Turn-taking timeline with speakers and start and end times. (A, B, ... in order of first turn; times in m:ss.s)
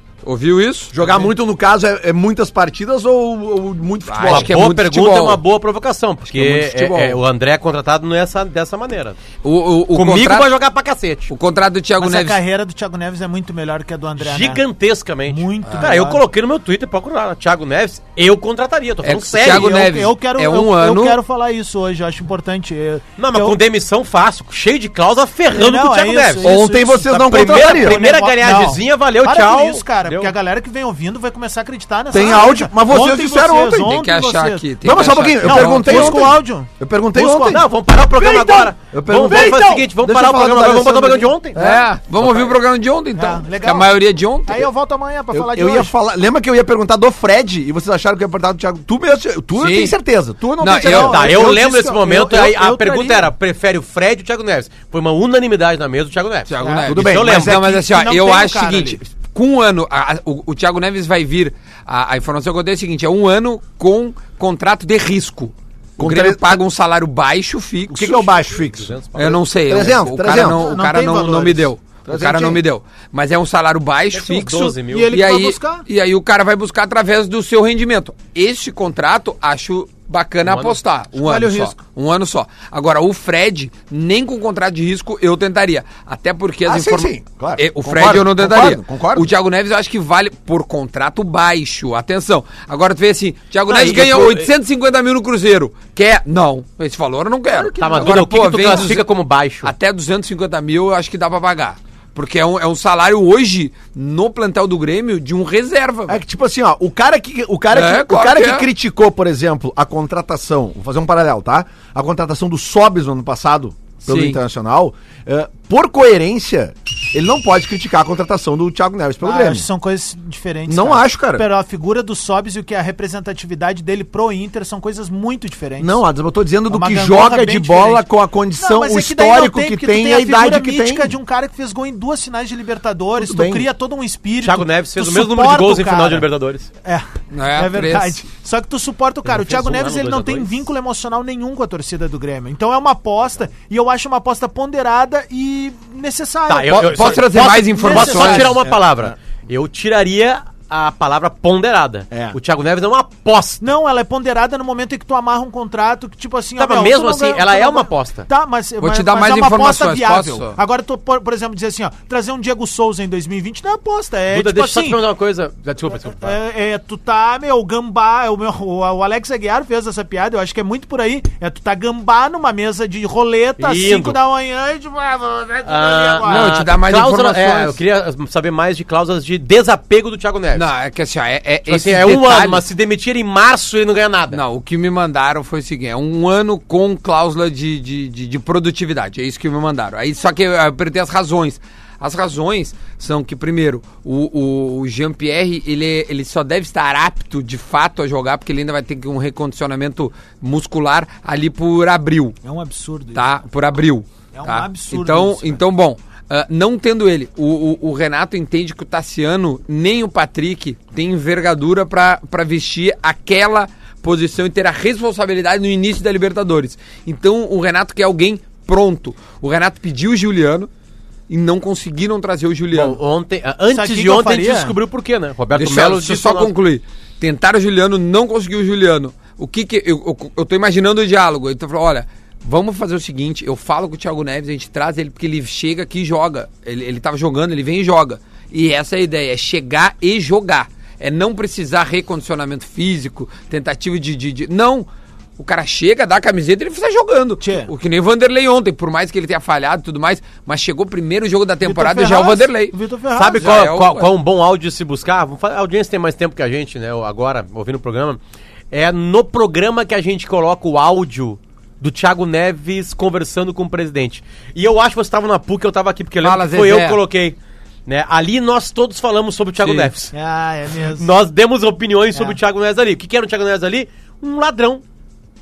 0:00.2-0:00.9 A
0:00.9-0:04.6 B
0:04.1-0:05.4 A
0:04.3-0:09.2 C
0:06.3-0:07.2 A
0:09.4-0:10.5 A
0:09.9-0:11.3 C
0:11.3-0:12.4 A
0:12.0-0:14.6 D
0:14.2-0:19.8 C
0:15.3-0:16.2 D
0:15.6-0:15.9 A
0:19.0-0:21.2 A
0:19.5-0:23.6 D
0:23.2-0:26.6 C
0:25.5-0:37.6 D
0:26.4-0:28.0 B
0:27.1-0:30.3 C
0:32.1-0:34.0 B
0:33.8-0:36.4 A
0:34.8-0:42.5 B
0:37.5-0:41.6 C
0:39.3-0:39.6 D
0:41.6-0:44.7 A
0:43.2-0:45.9 D
0:45.3-0:51.7 B
0:49.6-0:49.9 A
0:50.6-0:51.2 A
0:50.7-0:53.3 D
0:51.0-0:57.6 C
0:56.5-1:08.3 A
0:56.6-0:57.0 D
0:56.9-0:57.8 B
0:57.6-0:59.0 D
1:06.0-1:06.6 B
1:07.9-1:09.0 B
1:08.5-1:09.4 C
1:09.2-1:39.0 A
1:09.7-1:10.7 B
1:10.4-1:11.7 D
1:12.1-1:12.6 B
1:14.1-1:15.1 C
1:14.9-1:15.9 D
1:20.4-1:20.8 C
1:21.2-1:21.8 D
1:26.6-1:29.3 B
1:33.7-1:34.5 C
1:37.5-1:38.8 D
1:37.8-1:39.7 C
1:39.6-1:46.2 A
1:46.1-1:59.7 B
1:47.7-1:48.7 A
1:54.1-1:54.4 A
1:59.2-2:06.0 D
2:00.7-2:01.5 B
2:05.8-2:11.1 B
2:06.7-2:08.0 D
2:08.6-2:16.3 D
2:13.2-2:13.7 B
2:14.4-2:16.7 C
2:16.8-2:28.6 D
2:17.3-2:18.2 A
2:19.3-2:20.6 C
2:26.5-2:33.6 C
2:26.7-2:28.6 A
2:28.6-2:29.1 B
2:32.1-2:32.4 B
2:33.6-2:45.0 D
2:36.6-2:38.3 C
2:38.8-2:40.6 A
2:44.3-2:46.4 C
2:46.2-2:56.6 D
2:53.6-2:54.2 C
2:55.6-3:00.7 C
2:56.2-2:57.8 A
3:00.5-3:02.6 A
3:01.7-3:04.4 C
3:04.3-3:22.4 A
3:22.4-3:23.3 D
3:23.1-3:40.7 A
3:24.3-3:25.6 D
3:41.3-3:43.0 A
3:42.7-3:46.5 C
3:43.7-3:44.8 D
3:45.5-4:12.8 A
4:07.4-4:07.7 D
4:11.6-4:13.6 D
4:13.2-4:18.2 C
4:13.3-4:14.1 A
4:18.7-4:30.1 C
4:26.2-4:27.0 A
4:29.6-4:29.9 A
4:30.1-4:31.1 D
4:31.0-4:34.8 C